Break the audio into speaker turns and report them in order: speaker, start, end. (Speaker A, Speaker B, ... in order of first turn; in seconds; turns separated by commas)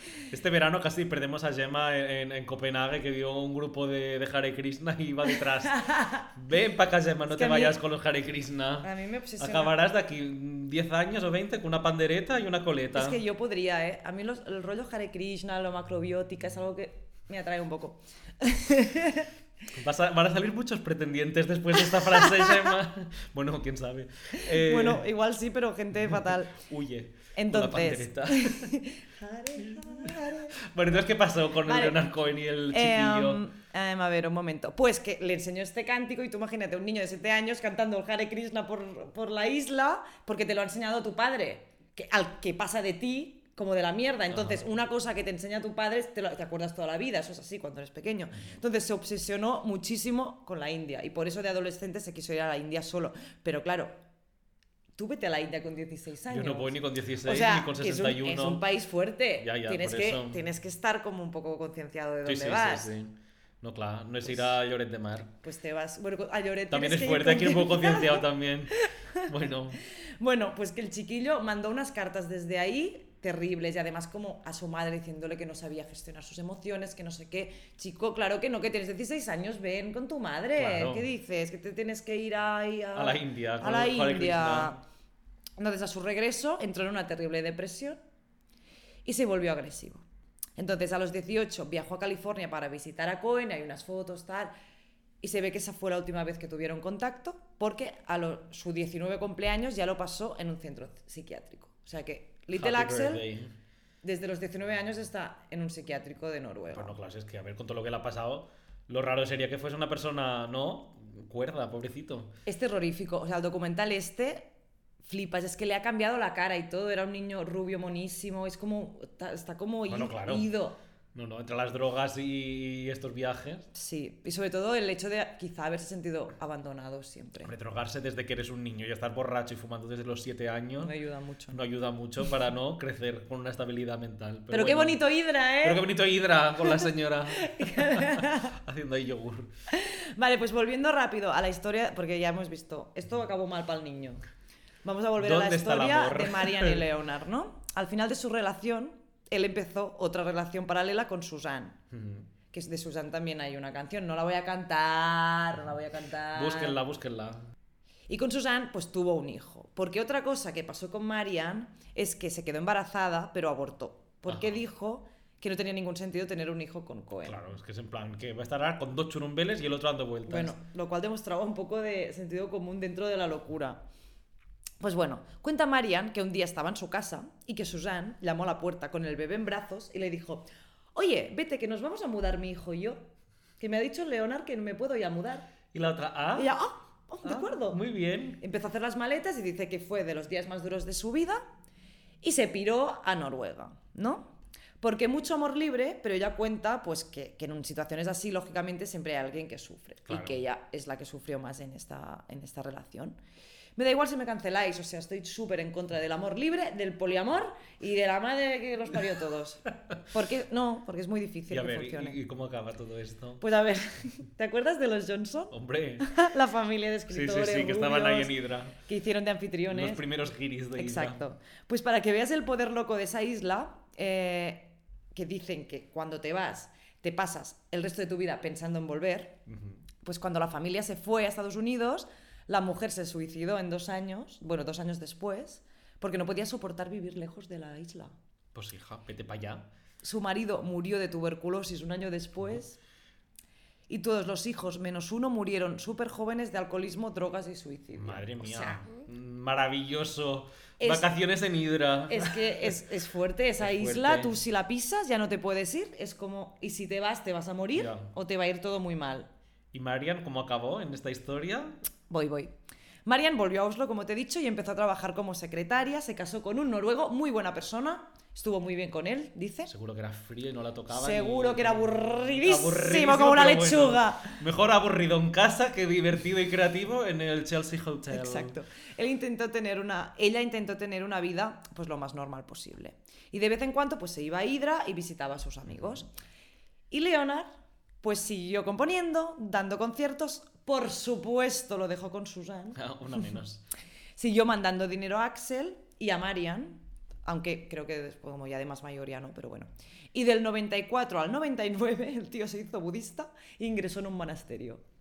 Speaker A: 0.3-13.2, Speaker B: 5.3-6.3, Speaker B: 7.3-7.8, Speaker B: 8.8-9.7, Speaker B: 12.9-19.3, Speaker A: 19.7-25.0, Speaker B: 21.8-22.6, Speaker B: 24.3-26.6, Speaker A: 26.6-28.7, Speaker B: 27.3-30.6, Speaker A: 29.6-33.4, Speaker B: 31.6-32.0, Speaker B: 32.7-53.9, Speaker A: 44.3-44.6, Speaker B: 55.0-62.9, Speaker A: 56.3-58.6, Speaker A: 59.4-60.4, Speaker A: 62.2-65.3, Speaker B: 65.4-69.3, Speaker A: 66.7-69.8, Speaker B: 70.2-84.8, Speaker A: 80.5-81.1, Speaker A: 82.9-84.7, Speaker B: 85.6-88.0, Speaker B: 89.0-90.0, Speaker B: 90.6-94.5, Speaker B: 95.2-103.3, Speaker A: 102.5-103.5, Speaker B: 104.0-107.0, Speaker A: 106.7-112.3, Speaker B: 112.5-114.5, Speaker B: 115.0-120.8, Speaker A: 119.9-120.5, Speaker A: 121.1-123.7, Speaker B: 123.7-127.5, Speaker A: 127.4-130.9, Speaker B: 130.8-131.6, Speaker A: 131.5-135.0, Speaker B: 134.5-135.9, Speaker A: 135.6-139.5, Speaker B: 136.6-138.6, Speaker B: 139.7-144.2, Speaker B: 144.8-151.8, Speaker A: 145.2-146.8, Speaker A: 151.9-152.3, Speaker B: 152.5-156.8, Speaker A: 156.3-157.4, Speaker B: 158.1-167.4, Speaker A: 164.3-164.6, Speaker A: 167.2-170.6, Speaker B: 170.2-173.8, Speaker B: 174.8-183.1, Speaker B: 183.6-185.5, Speaker A: 185.7-186.5, Speaker B: 186.3-187.8, Speaker A: 187.2-188.4, Speaker B: 188.4-191.4, Speaker B: 192.2-203.2, Speaker A: 200.1-200.4, Speaker B: 203.8-212.2, Speaker A: 211.5-213.4, Speaker B: 213.4-218.3, Speaker A: 215.5-216.1, Speaker A: 217.1-218.8, Speaker B: 218.8-220.0, Speaker A: 219.7-221.2, Speaker B: 220.8-229.4, Speaker A: 229.5-229.8, Speaker B: 230.0-238.1, Speaker A: 238.5-239.7, Speaker B: 240.0-242.8, Speaker B: 243.9-249.0, Speaker A: 248.0-252.7, Speaker B: 250.8-251.1, Speaker B: 252.1-259.3, Speaker A: 253.6-254.3, Speaker A: 257.7-258.1, Speaker A: 259.7-261.8, Speaker B: 262.1-262.5, Speaker B: 263.1-269.7, Speaker A: 269.7-278.6, Speaker B: 270.9-274.4, Speaker B: 278.1-286.1, Speaker B: 286.9-287.5, Speaker B: 288.0-293.2, Speaker A: 292.7-293.6, Speaker B: 294.2-304.8